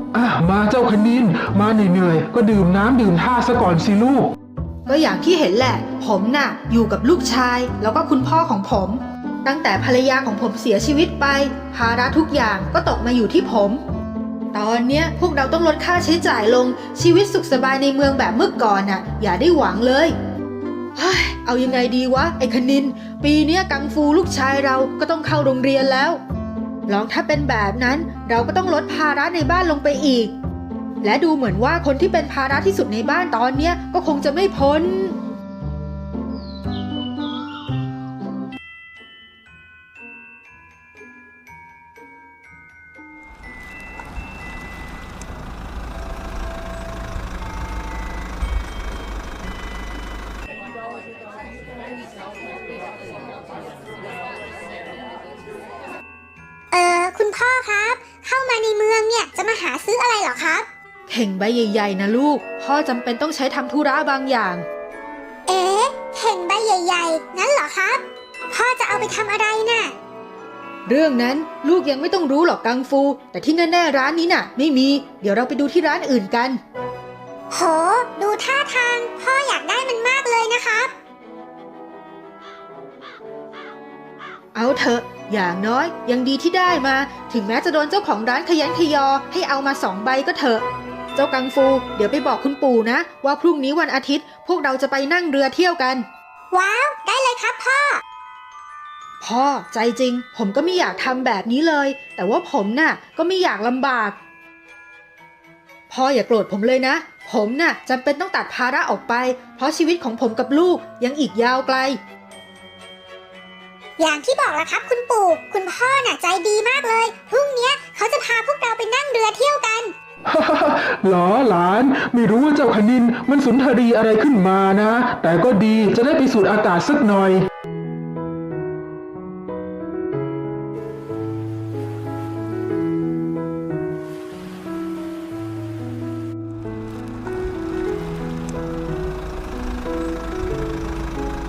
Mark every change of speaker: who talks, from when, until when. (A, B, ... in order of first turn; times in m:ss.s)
0:00.1-0:04.3 A
0:04.9-0:13.8 B
0:14.5-0:20.2 B
0:21.0-0:26.2 B
0:26.9-0:30.3 B
0:31.0-0:35.2 B
0:56.7-1:00.7 C
1:01.1-1:04.7 B
1:05.5-1:09.9 C
1:10.9-1:16.6 B
1:17.5-1:20.9 C
1:24.5-1:30.6 B
1:31.2-1:36.1 B
1:36.5-1:38.0 C
1:39.2-1:44.2 B
1:45.9-1:52.0 B
1:54.0-1:59.9 C
2:00.3-2:07.5 A